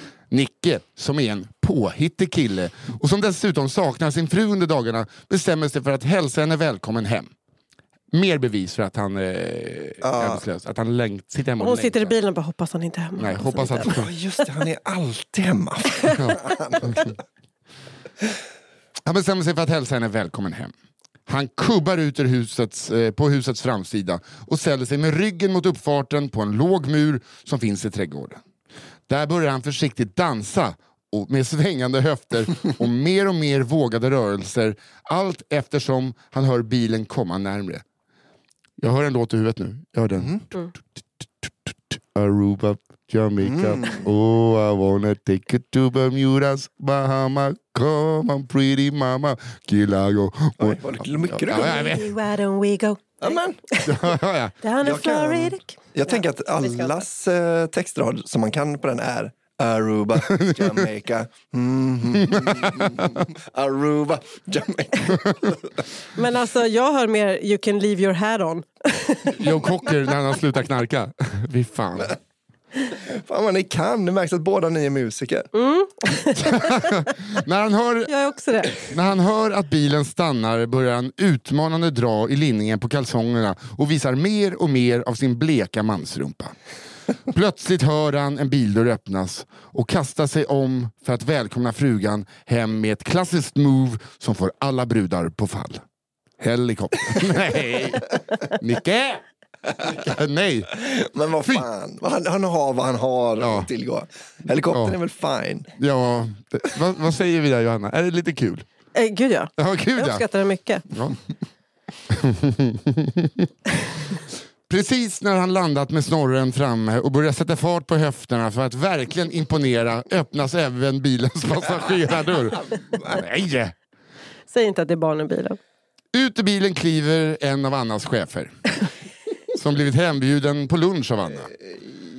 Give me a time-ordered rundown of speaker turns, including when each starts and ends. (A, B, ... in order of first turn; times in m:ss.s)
0:00.3-0:07.3 A
0:08.1-0:12.2 A
0:10.0-0:10.4 B
0:11.6-0:13.9 C
0:13.2-0:14.1 A
0:13.8-0:17.1 B
0:16.0-0:16.5 C
0:16.2-0:17.1 A
0:19.0-0:20.7 A
0:21.3-0:28.4 A
0:29.1-0:37.8 A
0:38.8-0:52.1 A
0:43.4-0:44.0 B
0:50.6-0:52.0 B
0:51.5-0:54.1 C
0:53.2-0:53.6 B
0:53.8-0:54.6 A
0:54.6-0:57.0 C
0:54.8-1:05.8 B
1:00.2-1:00.9 A
1:02.2-1:03.3 A
1:06.1-1:09.5 C
1:09.3-1:12.2 A
1:12.9-1:15.5 B
1:15.5-1:16.9 C
1:16.4-1:18.1 A
1:18.1-1:18.9 C
1:18.6-1:26.5 A
1:27.3-1:35.8 A
1:36.4-1:40.9 A
1:40.7-1:45.7 B
1:43.4-1:43.7 A
1:44.7-1:45.0 A
1:45.8-1:48.6 A
1:48.9-1:50.8 C
1:49.6-1:50.2 A
1:50.9-1:51.2 A
1:52.1-1:53.5 A
1:54.7-2:03.7 A
2:04.5-2:05.6 C
2:06.1-2:08.8 A
2:09.5-2:11.5 A